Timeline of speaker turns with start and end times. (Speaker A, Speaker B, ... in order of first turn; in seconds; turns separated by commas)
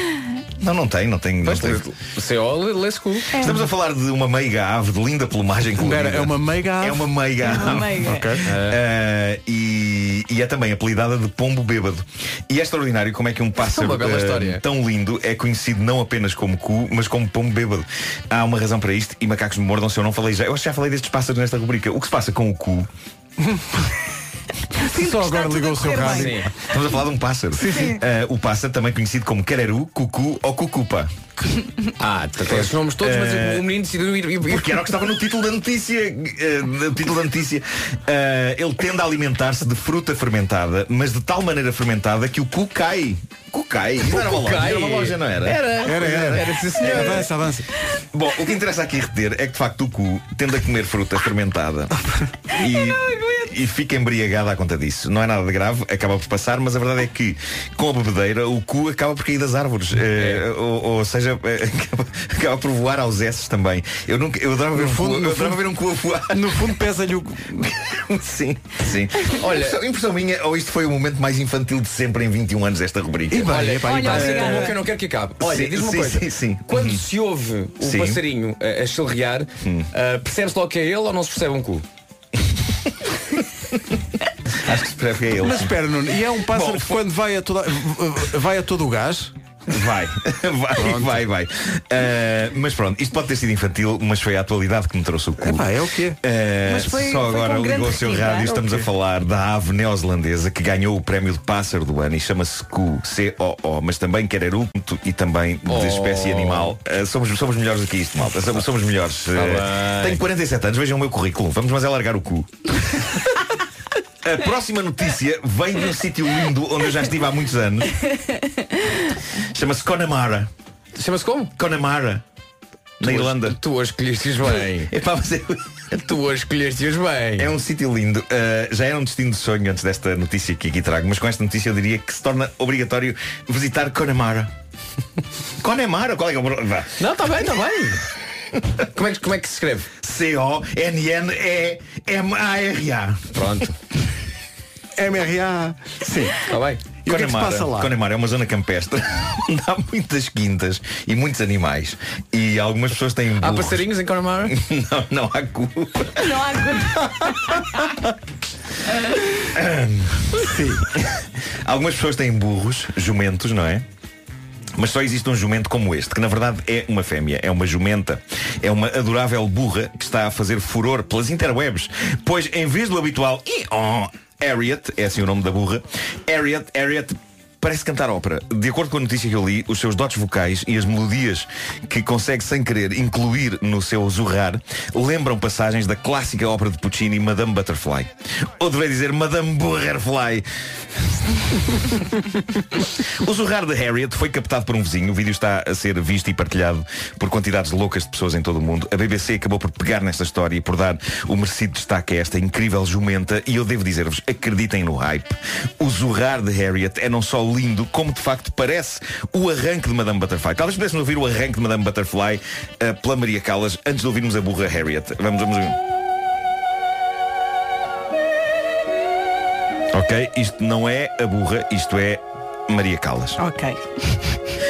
Speaker A: 0.6-1.8, Speaker B: 1.4-3.5, Speaker C: 3.3-3.6, Speaker A: 3.3-22.9, Speaker D: 5.8-8.4, Speaker C: 7.4-8.4, Speaker B: 8.4-8.8, Speaker B: 13.6-14.6, Speaker D: 23.4-23.8, Speaker C: 24.8-26.4, Speaker D: 24.8-26.5, Speaker B: 26.1-26.5, Speaker A: 26.7-31.1, Speaker D: 27.5-28.0, Speaker C: 27.7-28.0, Speaker B: 32.0-35.0, Speaker A: 32.4-33.7, Speaker A: 34.4-47.2, Speaker B: 44.0-47.3, Speaker D: 45.8-47.7, Speaker A: 48.1-66.8, Speaker B: 60.2-60.5, Speaker D: 64.7-67.7, Speaker A: 67.6-73.6, Speaker B: 69.3-69.8, Speaker D: 73.3-74.6, Speaker B: 73.4-81.8, Speaker C: 73.8-74.7, Speaker A: 74.3-74.7, Speaker A: 75.4-77.0, Speaker A: 77.8-78.2, Speaker A: 84.6-85.8, Speaker D: 85.4-89.3, Speaker A: 89.7-95.7, Speaker D: 90.8-91.2, Speaker D: 95.4-96.2, Speaker A: 96.2-113.0, Speaker C: 96.7-98.6, Speaker D: 98.6-98.8, Speaker B: 105.7-106.8, Speaker B: 109.3-110.2, Speaker A: 114.2-118.1, Speaker A: 119.5-120.5, Speaker B: 121.0-121.5, Speaker A: 121.6-122.2, Speaker A: 123.0-123.6, Speaker B: 123.0-124.9, Speaker A: 124.9-125.8, Speaker B: 126.0-127.5, Speaker A: 127.4-134.5, Speaker A: 135.6-136.9, Speaker B: 137.0-138.1, Speaker B: 138.9-139.9, Speaker A: 140.0-143.3, Speaker B: 143.3-143.8, Speaker D: 145.0-146.4, Speaker B: 146.4-147.0, Speaker D: 147.1-147.9, Speaker A: 147.1-153.9, Speaker B: 153.4-154.6, Speaker A: 154.5-156.3, Speaker C: 156.2-157.6, Speaker A: 159.5-163.8, Speaker D: 160.4-160.8, Speaker A: 164.8-190.5, Speaker A: 193.2-215.8, Speaker A: 219.9-223.4, Speaker C: 223.4-224.4